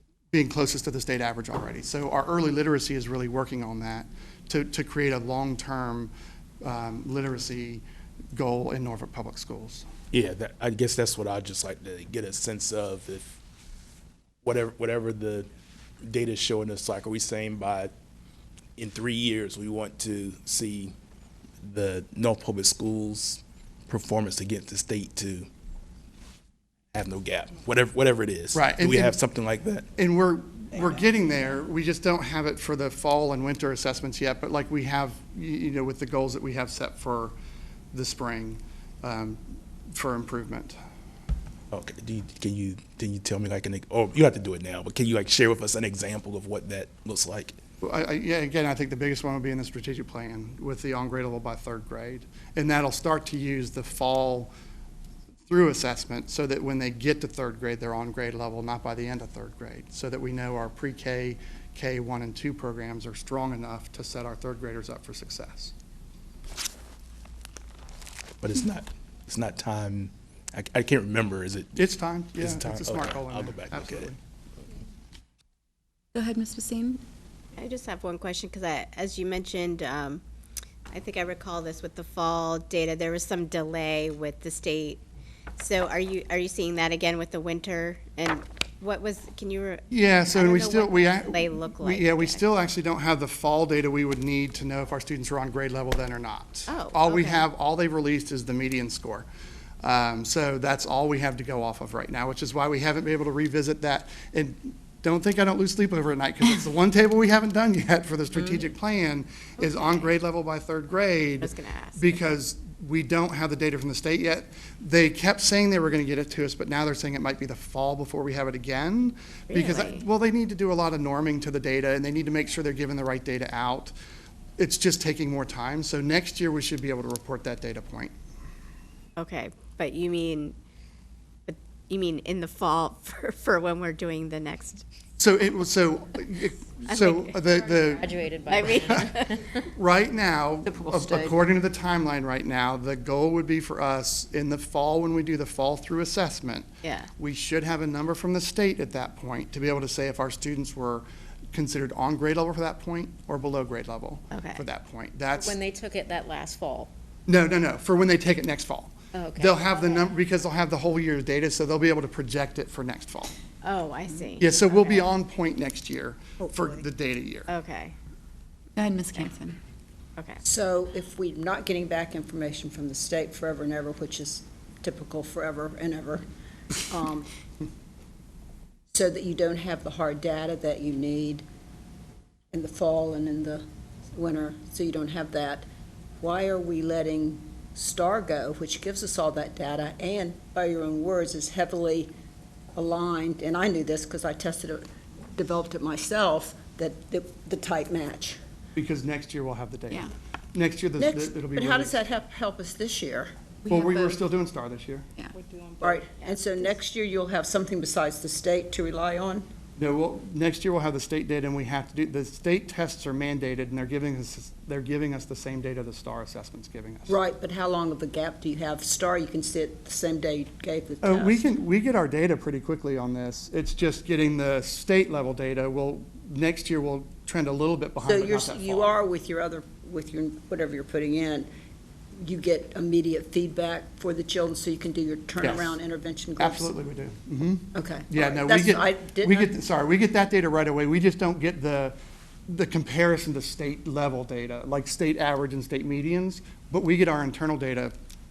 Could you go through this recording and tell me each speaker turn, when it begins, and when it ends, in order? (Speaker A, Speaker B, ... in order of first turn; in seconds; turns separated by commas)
Speaker A: 0.3-6.1, Speaker A: 6.6-7.8, Speaker A: 8.3-9.9, Speaker B: 10.1-13.2, Speaker B: 14.4-15.5, Speaker B: 16.0-17.9, Speaker B: 18.8-20.9, Speaker B: 21.6-25.5, Speaker B: 26.9-29.9, Speaker A: 28.5-29.2, Speaker A: 30.0-37.3, Speaker A: 37.9-40.8, Speaker B: 41.7-47.6, Speaker A: 47.8-54.5, Speaker A: 55.5-65.7, Speaker B: 68.4-74.1, Speaker A: 71.8-74.2, Speaker C: 76.1-77.0, Speaker D: 77.5-80.2, Speaker D: 80.9-85.0, Speaker D: 85.6-92.4, Speaker A: 89.9-99.2, Speaker D: 96.7-97.5, Speaker A: 99.8-123.9, Speaker D: 108.3-108.6, Speaker D: 109.6-110.1, Speaker D: 111.4-112.2, Speaker D: 119.5-120.0, Speaker A: 124.6-128.1, Speaker D: 129.2-130.6, Speaker D: 131.5-134.8, Speaker A: 135.2-155.6, Speaker D: 136.8-137.6, Speaker E: 137.5-139.3, Speaker D: 138.5-139.6, Speaker F: 140.6-141.4, Speaker D: 146.8-147.1, Speaker D: 154.3-154.6, Speaker E: 155.3-156.9, Speaker A: 157.3-163.3, Speaker E: 159.1-160.1, Speaker D: 163.6-165.1, Speaker A: 164.4-167.5, Speaker D: 167.5-167.9, Speaker C: 168.8-169.6, Speaker F: 170.4-176.2, Speaker F: 176.9-177.3, Speaker F: 178.9-181.4, Speaker F: 182.5-183.6, Speaker F: 184.1-185.7, Speaker F: 186.2-192.1, Speaker F: 192.8-198.4, Speaker A: 198.8-201.9, Speaker F: 201.0-203.3, Speaker A: 203.7-205.1, Speaker C: 203.7-204.2, Speaker E: 205.3-206.1, Speaker F: 205.8-209.4, Speaker A: 209.8-217.2, Speaker F: 217.1-221.4, Speaker A: 221.0-228.9, Speaker F: 228.0-231.5, Speaker F: 232.2-236.7, Speaker A: 235.4-235.8, Speaker A: 236.4-241.9, Speaker F: 237.7-239.5, Speaker A: 242.5-247.9